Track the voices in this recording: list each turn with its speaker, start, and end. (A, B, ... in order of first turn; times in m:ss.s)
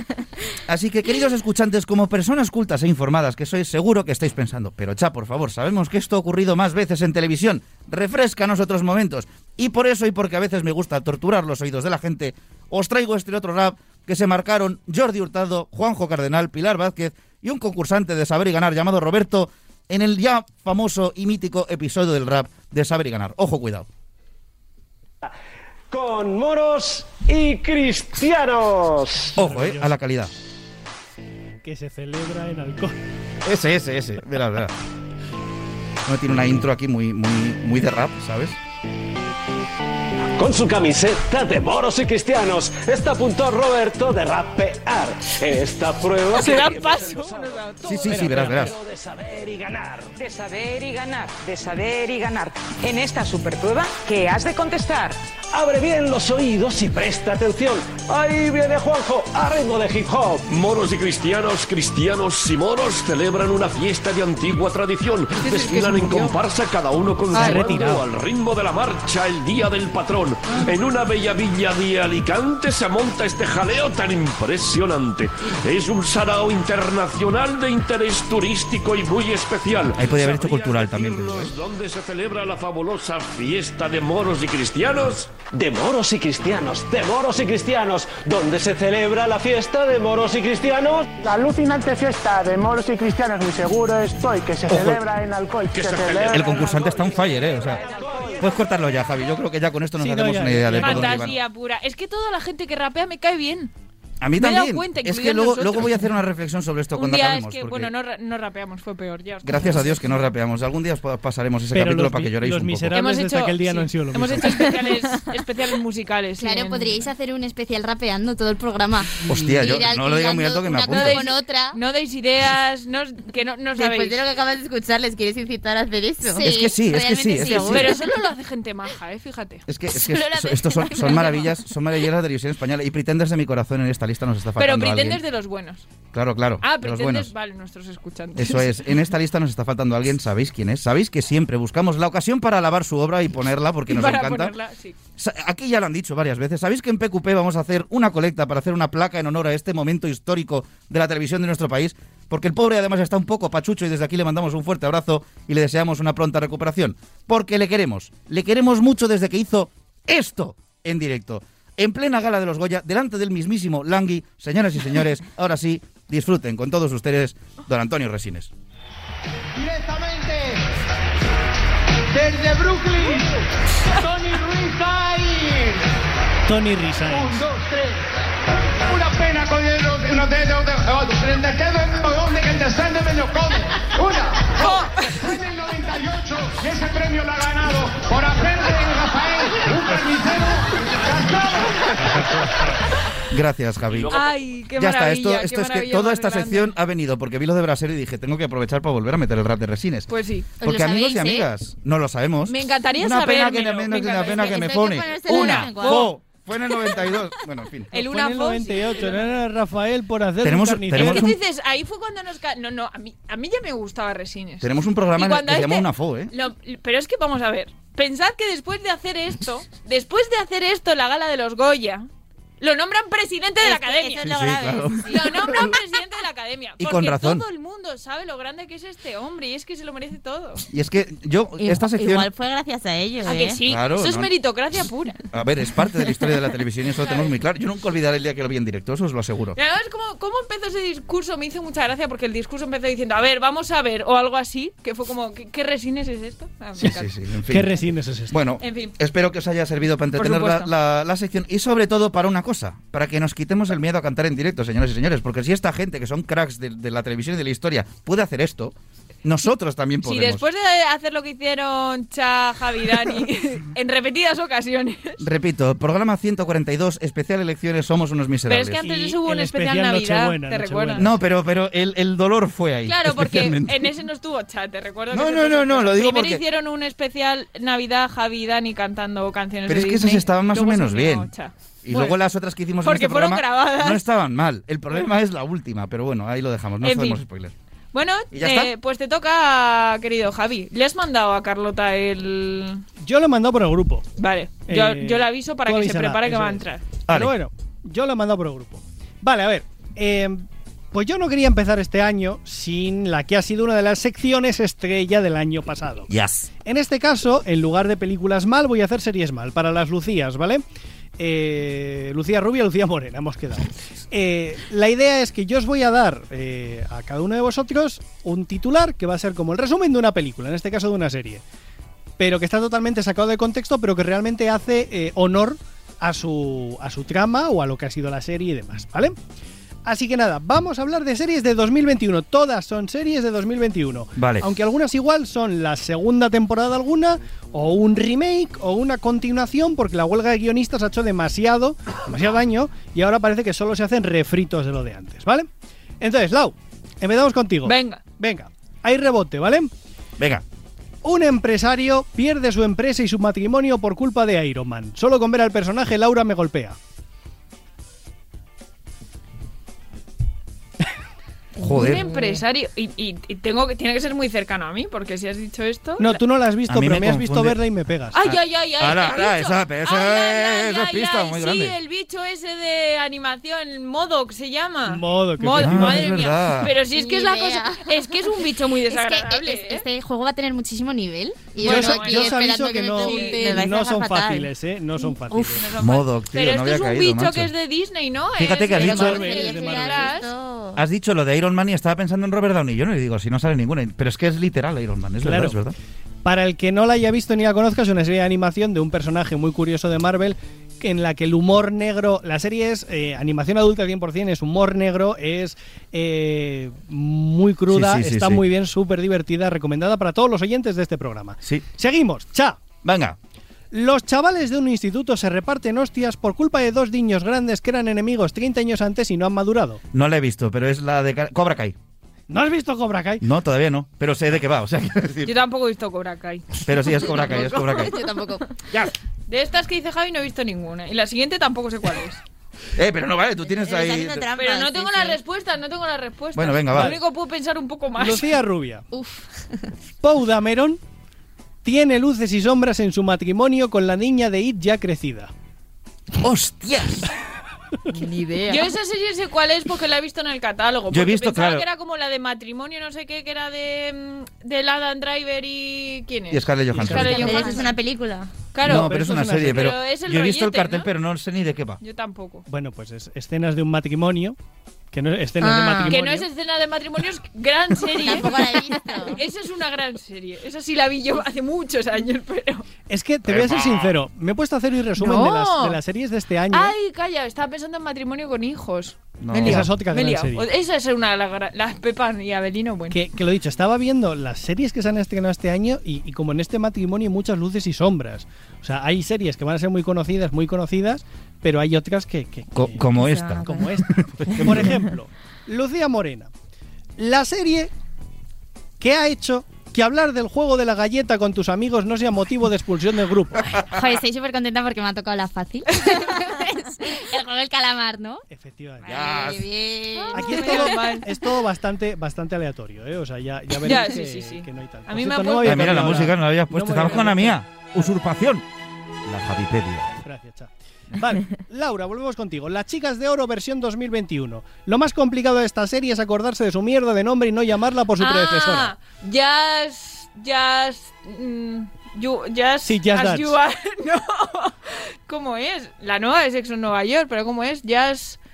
0:00.7-0:23.9 A
0:25.9-0:29.3 B
0:29.4-0:30.3 A
0:29.4-0:29.9 C
0:31.6-0:33.0 C
0:33.4-0:34.7 A
0:36.1-0:38.6 A
0:40.4-0:50.1 B
0:46.3-0:47.8 D
0:47.8-0:48.8 A
0:50.2-0:55.2 E
0:55.5-1:00.4 B
1:00.5-1:25.4 F
1:05.4-1:06.2 D
1:07.3-1:08.1 C
1:20.0-1:21.5 A
1:25.4-1:31.1 B
1:31.2-1:36.5 G
1:34.7-1:35.0 A
1:35.7-1:37.1 F
1:36.3-1:37.9 A
1:36.7-1:37.0 B
1:37.8-1:38.4 B
1:38.4-1:41.4 A
1:40.0-1:41.3 C
1:40.8-1:43.7 D
1:44.2-1:47.9 A
1:44.4-1:46.0 D
1:47.0-1:50.3 D
1:49.4-1:53.0 A
1:51.7-1:54.7 C
1:52.9-1:57.1 D
1:56.4-2:01.8 H
1:59.3-2:01.3 A
2:00.9-2:04.2 D
2:03.8-2:06.6 I
2:06.2-2:07.8 H
2:06.4-2:08.0 A
2:07.3-2:08.0 I
2:07.5-2:09.6 D
2:09.7-2:15.2 A
2:10.0-2:11.5 H
2:14.6-2:15.9 D
2:16.1-2:17.3 A
2:16.6-2:18.8 D
2:18.4-2:24.6 A
2:23.9-2:25.0 D
2:25.2-2:48.5 A
2:49.6-2:50.6 J
2:52.1-2:55.8 J
2:56.5-2:57.4 C
2:57.0-2:58.1 J
2:58.8-3:12.5 J
3:04.6-3:05.2 D
3:13.3-3:14.2 A
3:13.9-3:14.4 F
3:14.1-3:16.8 D
3:14.8-3:27.9 A
3:20.1-3:20.5 D
3:20.6-3:21.5 H
3:22.5-3:26.1 D
3:24.1-3:26.1 I
3:27.9-3:29.3 D
3:27.9-3:31.3 C
3:30.4-3:31.4 A
3:30.9-3:42.1 D
3:34.6-3:36.3 A
3:42.6-3:44.4 D
3:43.6-3:45.8 I
3:44.2-3:45.8 A
3:45.1-3:50.6 D
3:46.8-3:47.4 A
3:50.7-3:52.3 A
3:51.6-3:53.6 I
3:53.2-3:55.2 D
3:53.7-3:54.3 A
3:55.3-3:59.6 A
3:57.0-3:57.3 D
3:59.6-4:07.1 D
4:06.8-4:07.8 A
4:07.5-4:08.4 C
4:08.3-4:20.4 A
4:08.6-4:08.9 D
4:10.2-4:10.7 D
4:20.0-4:25.2 D
4:25.2-4:28.9 A
4:28.5-4:31.1 D
4:28.8-4:31.2 C
4:31.0-4:33.9 A
4:32.9-4:42.2 D
4:35.1-4:36.4 A
4:39.7-4:41.3 A
4:41.8-4:47.5 A
4:42.8-4:44.0 D
4:46.8-4:47.2 D
4:47.9-4:52.8 D
4:48.3-4:48.7 A
4:53.0-4:54.1 C
4:54.2-4:56.8 D
4:54.7-5:06.1 C
4:57.1-4:57.3 A
5:06.1-5:06.5 A
5:06.6-5:10.6 C
5:11.2-5:21.4 C
5:22.2-5:29.2 C
5:29.8-5:45.5 C
5:34.2-5:34.4 A
5:46.0-5:49.7 C
5:47.6-5:48.0 D
5:50.2-5:50.4 A
5:51.0-5:56.8 C
6:01.6-6:02.1 A
6:01.6-6:06.2 D
6:01.6-6:02.4 I
6:06.0-6:08.1 C
6:06.7-6:07.6 A
6:08.1-6:19.9 D
6:08.2-6:11.8 A
6:14.9-6:16.1 C
6:15.5-6:16.8 A
6:17.0-6:17.8 I
6:17.2-6:17.7 H
6:18.9-6:23.7 H
6:21.6-6:24.5 I
6:21.6-6:22.4 D
6:21.6-6:25.7 C
6:23.0-6:23.3 D
6:25.3-6:25.8 H
6:25.8-6:27.5 A
6:26.3-6:30.3 D
6:28.4-6:29.4 A
6:28.7-6:30.8 I
6:28.8-6:30.1 C
6:30.8-6:35.8 A
6:35.2-6:35.6 C
6:36.2-6:52.6 C
6:47.7-6:48.4 A
6:52.8-6:53.2 A
6:53.7-6:59.8 C
6:59.9-7:01.8 A
7:02.3-7:03.2 C
7:03.2-7:05.3 A
7:05.3-7:06.6 D
7:06.5-7:08.0 A
7:07.0-7:08.5 H
7:09.3-7:12.2 D
7:12.8-7:14.3 A
7:13.4-7:15.2 I
7:14.4-7:18.3 D
7:16.4-7:17.0 A
7:16.7-7:17.0 C
7:18.0-7:18.8 C
7:18.9-7:19.7 H
7:20.0-7:20.8 C
7:21.6-7:25.3 C
7:26.2-7:27.1 A
7:27.9-7:28.7 I
7:28.5-7:37.7 D
7:30.9-7:31.7 A
7:36.3-7:37.5 A
7:36.7-7:37.3 C
7:37.0-7:38.3 I
7:37.1-7:37.7 H
7:38.5-7:40.9 D
7:38.6-7:41.8 A
7:38.6-7:39.7 C
7:41.8-7:42.4 D
7:42.5-7:44.4 C
7:44.9-7:46.3 C
7:45.4-7:46.0 I
7:45.9-7:52.7 D
7:48.0-7:49.2 I
7:52.9-7:56.8 C
7:53.3-7:54.0 A
7:55.0-7:55.4 H
7:55.2-7:55.8 D
7:56.5-8:03.0 D
7:59.2-7:59.7 A
7:59.3-8:00.5 C
8:02.9-8:16.3 C
8:12.5-8:14.8 A
8:13.0-8:13.2 I
8:17.0-8:17.7 C
8:18.8-8:23.5 C
8:23.5-8:28.2 H
8:28.3-8:29.1 C
8:28.8-8:29.5 A
8:28.9-8:30.6 I
8:29.2-8:31.0 H
8:30.1-8:37.9 C
8:30.2-8:31.1 D
8:33.6-8:36.0 D
8:35.4-8:38.5 A
8:39.0-8:40.0 A
8:40.0-8:48.7 C
8:48.0-8:58.2 D
8:52.6-8:53.4 C